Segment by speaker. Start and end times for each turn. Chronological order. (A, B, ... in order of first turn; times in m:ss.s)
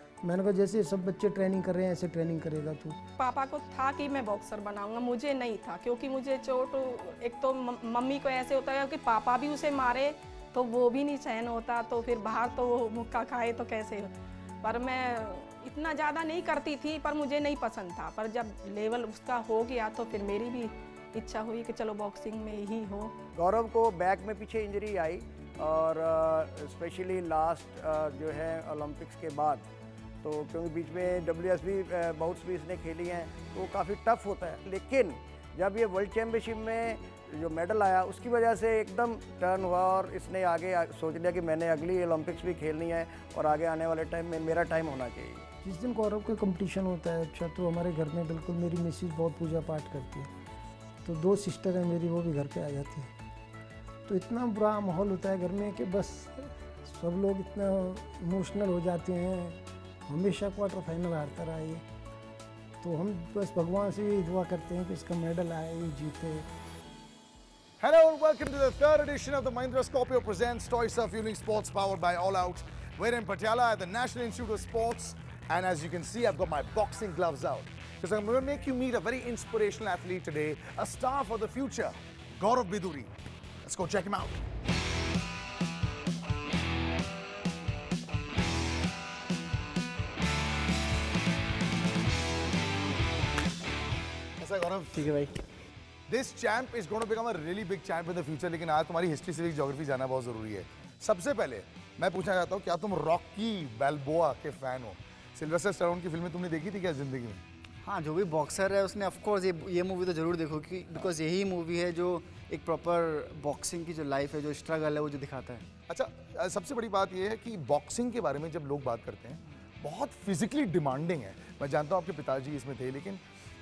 0:00.2-0:03.0 A
0:03.2-0:14.1 B
0:14.6-0:23.2 B
0:23.3-0:29.7 C
0:30.2-0:45.5 C
0:45.6-0:50.3 A
0:51.0-0:53.1 A
0:54.1-1:01.8 A
1:02.8-1:06.5 A
1:07.8-1:23.1 D
1:23.6-1:24.4 D
1:34.4-1:35.0 D
1:35.0-1:35.4 E
1:36.1-1:47.4 D
1:47.8-1:55.6 E
1:55.9-2:03.2 D